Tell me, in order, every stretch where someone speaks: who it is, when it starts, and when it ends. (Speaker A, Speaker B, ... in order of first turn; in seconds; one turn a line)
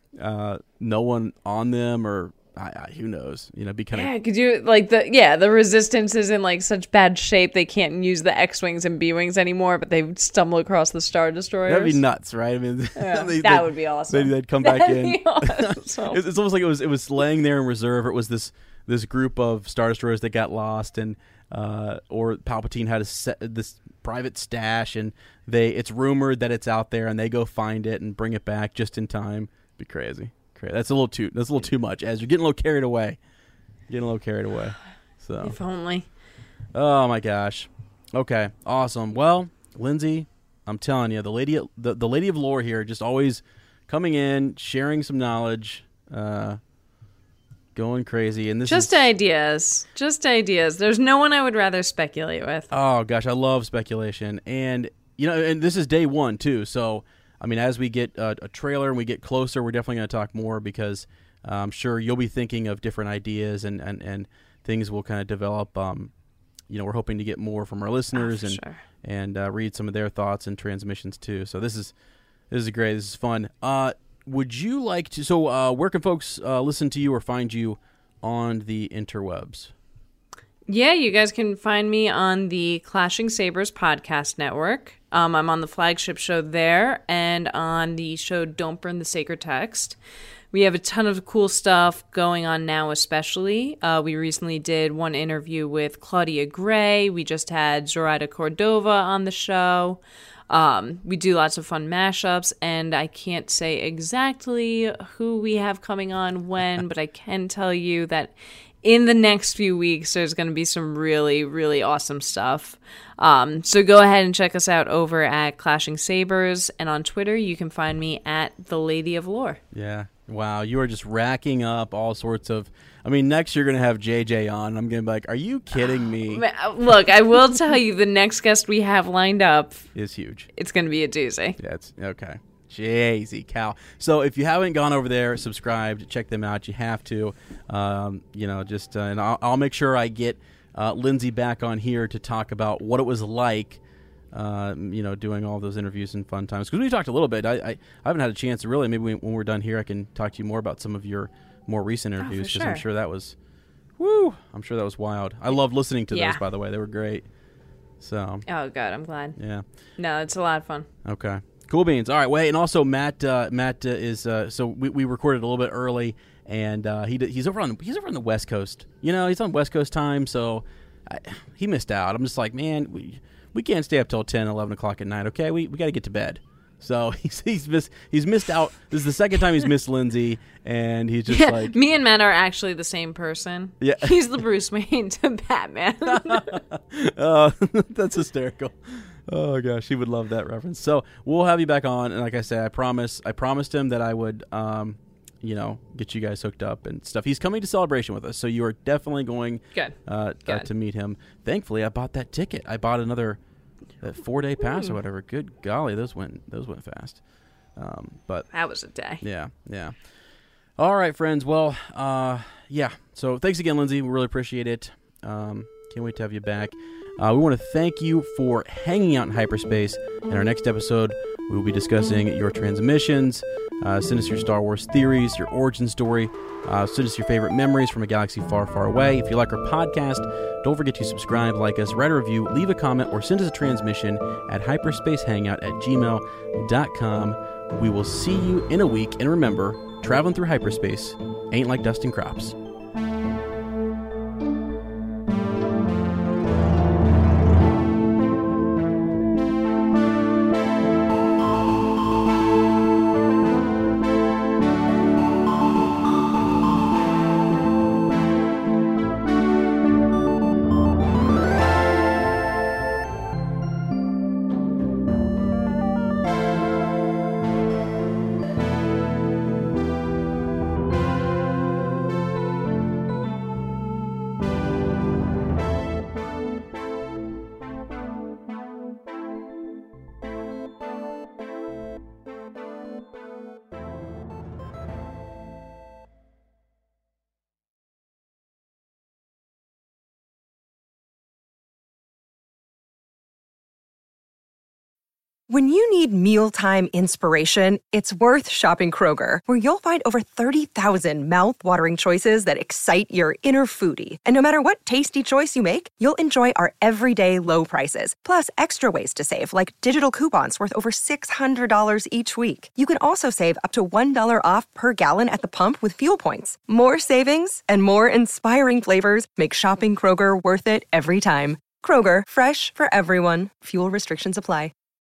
Speaker A: 0.2-4.1
Speaker B: 3.9-12.0
Speaker A: 11.7-33.2
Speaker B: 13.0-16.2
Speaker A: 33.9-35.6
Speaker B: 35.4-36.1
Speaker A: 36.7-46.6
Speaker A: 47.8-49.0
Speaker B: 48.7-52.7
Speaker A: 52.7-66.1
Speaker A: 66.7-71.9
Speaker B: 68.1-68.8
Speaker A: 72.5-79.7
Speaker B: 80.7-90.0
Speaker B: 90.5-119.6
Speaker A: 119.7-126.4
Speaker B: 125.9-129.9
Speaker A: 129.9-130.5
Speaker B: 130.6-131.6
Speaker A: 131.6-143.8
Speaker A: 144.3-153.4
Speaker B: 152.2-152.8
Speaker A: 154.0-157.3
Speaker B: 156.1-156.4
Speaker A: 158.0-158.4
Speaker B: 158.5-159.4
Speaker A: 159.4-159.7
Speaker B: 160.0-160.9
Speaker A: 161.1-181.8
Speaker B: 181.3-186.6
Speaker A: 183.8-184.2
Speaker A: 186.1-203.4
Speaker A: 204.0-207.2
Speaker A: 207.8-208.5
Speaker B: 208.5-209.2
Speaker A: 209.2-209.9
Speaker A: 210.8-242.6
Speaker C: 295.5-324.7